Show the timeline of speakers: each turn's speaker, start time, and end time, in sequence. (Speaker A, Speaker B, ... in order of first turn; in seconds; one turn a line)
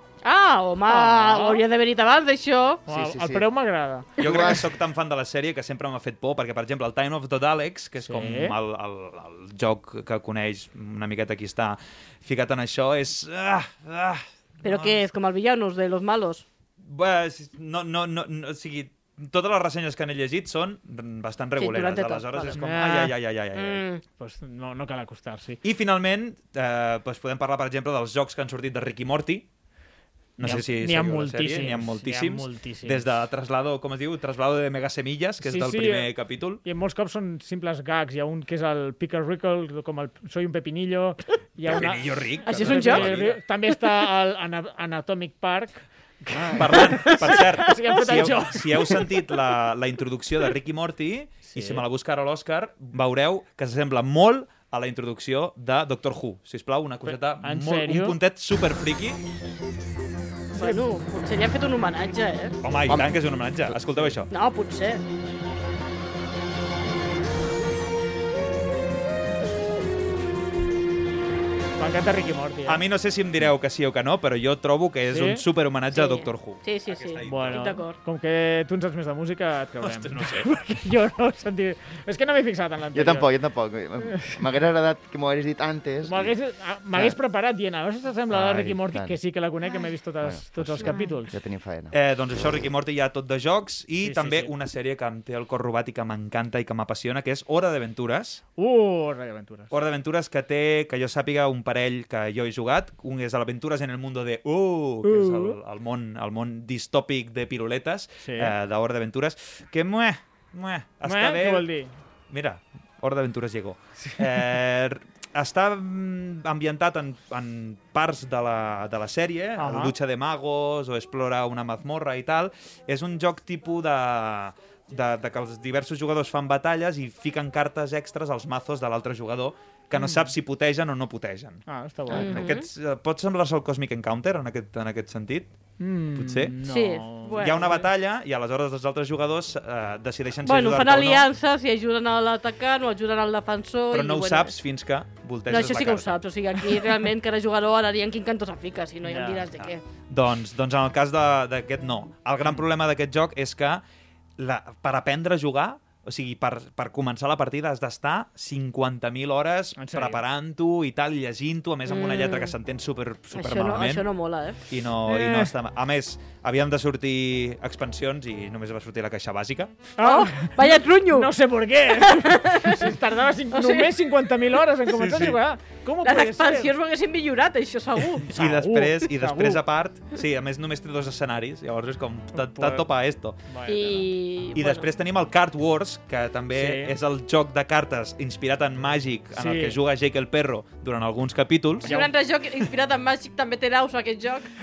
Speaker A: 0.2-2.8
Speaker B: 0.9-1.6
Speaker B: 2.9-4.2
Speaker C: 2.9-3.5
Speaker C: 4.2-4.7
Speaker D: 4.2-14.9
Speaker B: 8.0-8.6
Speaker A: 14.6-16.4
Speaker D: 16.8-23.8
Speaker A: 21.6-22.6
Speaker B: 22.5-23.1
Speaker A: 23.5-24.0
Speaker B: 24.2-25.6
Speaker D: 25.6-29.5
Speaker D: 30.4-36.6
Speaker B: 30.4-33.1
Speaker B: 35.4-36.1
Speaker B: 36.6-49.0
Speaker D: 41.6-43.4
Speaker A: 42.5-43.1
Speaker D: 46.5-59.2
Speaker A: 47.0-47.5
Speaker B: 51.5-51.8
Speaker B: 57.0-58.2
Speaker B: 60.5-60.8
Speaker A: 60.5-62.6
Speaker D: 62.6-64.3
Speaker C: 62.9-63.1
Speaker A: 64.3-65.0
Speaker B: 71.8-72.8
Speaker D: 72.7-77.8
Speaker B: 75.1-75.4
Speaker A: 75.9-78.0
Speaker B: 77.2-83.3
Speaker D: 79.8-80.5
Speaker C: 82.9-86.3
Speaker B: 84.1-84.4
Speaker B: 86.0-91.3
Speaker C: 88.3-89.2
Speaker C: 90.2-91.9
Speaker D: 91.9-98.4
Speaker B: 94.0-94.5
Speaker B: 98.6-99.7
Speaker D: 99.7-111.7
Speaker B: 105.0-105.6
Speaker B: 108.2-108.5
Speaker B: 111.0-111.9
Speaker D: 112.3-135.5
Speaker B: 119.6-119.9
Speaker B: 129.9-130.3
Speaker B: 131.7-132.5
Speaker A: 132.1-132.6
Speaker B: 135.8-137.9
Speaker D: 136.1-136.6
Speaker A: 136.6-137.7
Speaker D: 137.3-141.3
Speaker A: 140.4-144.5
Speaker D: 143.9-146.2
Speaker A: 145.5-149.8
Speaker B: 149.0-149.5
Speaker D: 149.6-153.8
Speaker D: 154.4-164.0
Speaker B: 159.8-160.2
Speaker A: 161.9-162.5
Speaker A: 163.3-164.6
Speaker D: 164.7-169.9
Speaker B: 165.1-165.5
Speaker B: 170.0-176.7
Speaker A: 170.0-171.3
Speaker A: 172.0-172.9
Speaker A: 173.5-173.9
Speaker D: 174.9-175.4
Speaker A: 176.0-178.3
Speaker B: 178.2-179.6
Speaker D: 178.3-183.4
Speaker B: 182.3-182.8
Speaker B: 183.5-184.1
Speaker A: 183.7-184.9
Speaker D: 184.5-192.0
Speaker B: 186.5-186.9
Speaker B: 189.3-189.8
Speaker B: 191.8-192.1
Speaker A: 191.8-194.5